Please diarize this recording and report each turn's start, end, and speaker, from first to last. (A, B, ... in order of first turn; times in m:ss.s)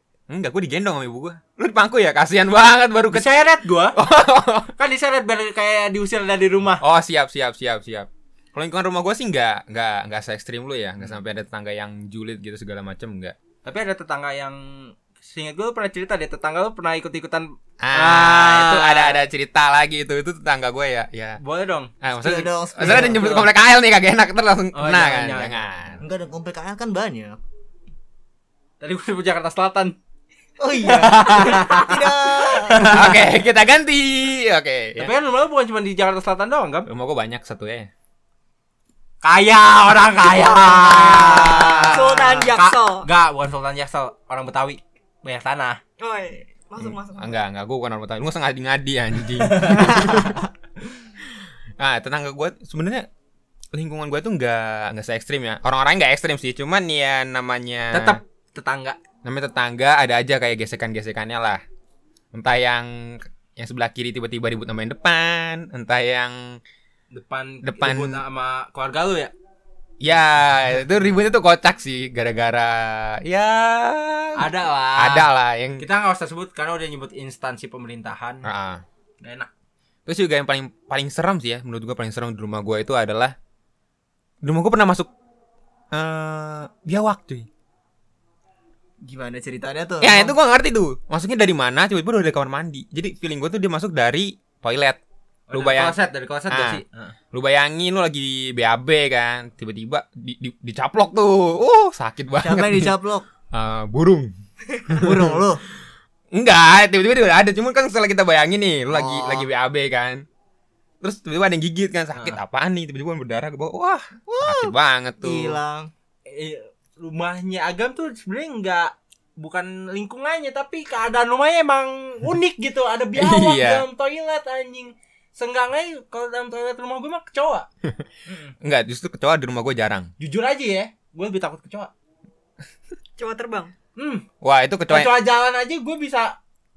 0:00.3-0:03.3 A
0:03.1-0:04.0 B
0:03.9-0:04.7 A
0:04.8-0:06.8 B
0:06.8-0:13.4 A
0:13.6-0:19.2 B
0:17.8-0:21.4 A
0:21.4-0:21.9 B
0:22.0-0:26.0 A
0:22.2-0:23.5 C
0:22.8-0:23.4 B
0:24.7-0:26.0 B
0:26.0-0:27.4 C
0:28.8-0:30.0 B
0:30.6-0:33.0 C
0:30.8-0:33.2 B
0:32.9-0:35.1 A
0:35.0-0:36.9 B
0:36.9-0:37.9 A
0:39.2-0:45.8 B
0:40.5-0:41.9 C
0:41.9-0:43.1 D
0:46.0-0:47.4 D
0:46.8-0:50.4 A
0:49.4-0:50.2 B
0:51.8-0:53.1 A
0:53.7-0:58.2 A
0:57.9-0:59.0 B
0:59.2-1:01.6 A
1:02.3-1:06.6 A
1:07.1-1:09.3 B
1:07.6-1:08.2 A
1:10.0-1:15.8 A
1:14.4-1:15.3 B
1:15.8-1:18.5 B
1:18.4-1:18.8 A
1:19.2-1:19.5 B
1:20.1-1:23.4 A
1:24.4-1:25.1 A
1:25.9-1:27.5 A
1:29.0-1:30.4 C
1:30.0-1:35.0 A
1:35.5-1:37.2 B
1:35.5-1:36.0 A
1:36.5-1:36.8 A
1:37.3-1:42.9 A
1:42.4-1:43.2 C
1:43.5-1:44.3 A
1:44.9-1:45.4 A
1:44.9-1:45.6 C
1:46.3-1:50.2 A
1:48.9-1:49.5 C
1:51.0-1:55.6 A
1:52.1-1:52.4 B
1:54.3-1:55.9 C
1:56.3-2:07.7 B
2:03.2-2:03.8 A
2:08.2-2:08.6 B
2:08.6-2:10.1 A
2:10.2-2:11.9 B
2:13.2-2:13.7 D
2:14.0-2:14.2 B
2:14.4-2:15.1 A
2:14.9-2:16.4 B